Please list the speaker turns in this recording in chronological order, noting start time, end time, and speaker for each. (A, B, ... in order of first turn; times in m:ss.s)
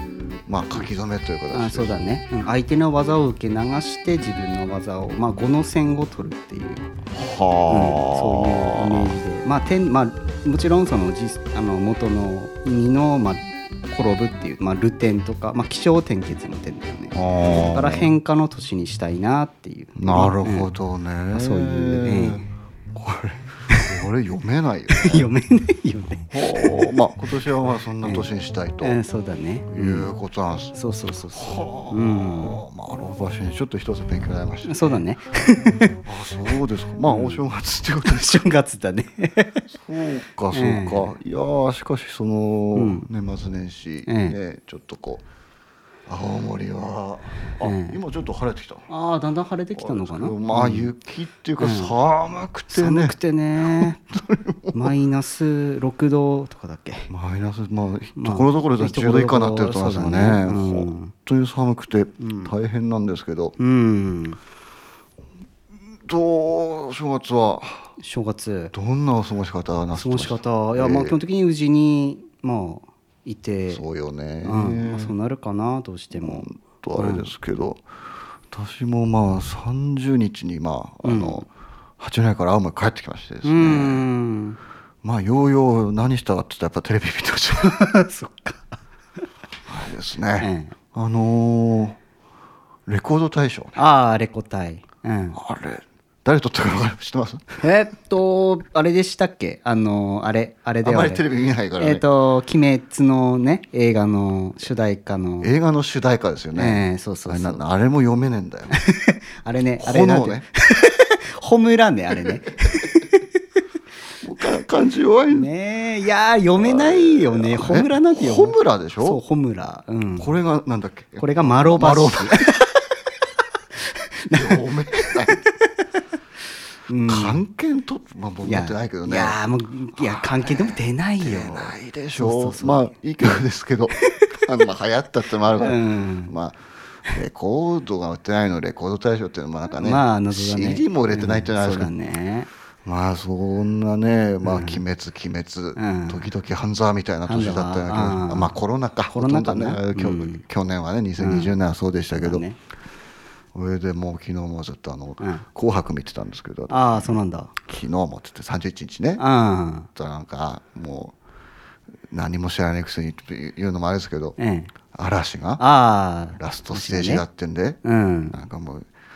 0:00.5-0:02.0 A
0:01.5-0:06.9 B
0:07.1-0:09.2 A
0:07.7-0:20.7 B
0:17.1-0:18.1 A
0:20.0-0:25.3 A
0:21.3-0:22.5 B
0:24.9-0:26.8 B
0:26.3-0:29.0 A
0:28.0-0:28.3 B
0:28.8-0:30.1 B
0:29.7-0:30.7 A
0:30.7-0:32.6 B
0:31.3-0:35.0 A
0:34.6-0:36.0 B
0:36.0-0:38.4 A
0:37.0-0:37.5 B
0:38.0-0:39.6 B
0:39.7-0:45.2 A
0:40.5-0:41.2 B
0:42.7-0:43.1 B
0:44.1-0:44.4 B
0:46.1-0:48.9 A
0:47.6-0:48.0 B
0:48.9-0:50.9 B
0:49.7-0:54.9 A
0:51.6-0:51.9 B
0:52.7-0:54.0 B
0:54.7-0:57.1 B
0:57.1-1:03.6 A
0:58.2-1:01.1 B
1:02.2-1:02.5 B
1:03.6-1:04.4 B
1:05.9-1:07.9 A
1:08.0-1:08.7 B
1:08.7-1:11.2 A
1:09.9-1:13.8 B
1:13.7-1:15.1 A
1:14.4-1:17.3 B
1:16.1-1:17.8 A
1:18.5-1:21.5 A
1:21.0-1:21.4 B
1:22.0-1:24.0 A
1:23.4-1:24.6 B
1:25.0-1:27.8 A
1:27.6-1:28.7 B
1:29.7-1:32.0 A
1:30.4-1:30.7 B
1:32.8-1:33.8 A
1:33.8-1:35.4 B
1:35.3-1:37.6 A
1:37.6-1:41.2 B
1:40.8-1:42.0 A
1:41.8-1:45.5 B
1:45.4-1:48.8 A
1:46.5-1:47.6 B
1:48.7-1:53.2 B
1:49.8-1:50.4 A
1:54.2-1:55.5 A
1:55.3-2:00.4 B
1:56.6-1:59.2 A
2:00.2-2:02.5 A
2:01.2-2:02.9 B
2:03.8-2:05.5 B
2:04.3-2:05.4 A
2:06.9-2:07.4 B
2:07.1-2:09.4 A
2:08.4-2:13.4 B
2:09.9-2:21.9 A
2:14.0-2:14.4 B
2:15.6-2:16.3 B
2:19.8-2:22.5 B
2:22.8-2:32.4 A
2:24.4-2:24.8 B
2:25.8-2:26.3 B
2:27.2-2:28.5 B
2:29.1-2:30.4 B
2:31.2-2:31.5 B
2:32.2-2:32.6 B
2:33.5-2:39.2 A
2:36.7-2:37.5 B
2:39.2-2:39.9 B
2:39.9-2:41.2 A
2:42.1-2:44.4 A
2:44.4-2:44.7 B
2:44.9-2:45.6 A
2:45.6-2:47.2 B
2:46.4-2:47.8 A
2:47.8-2:48.4 B
2:48.3-2:48.9 A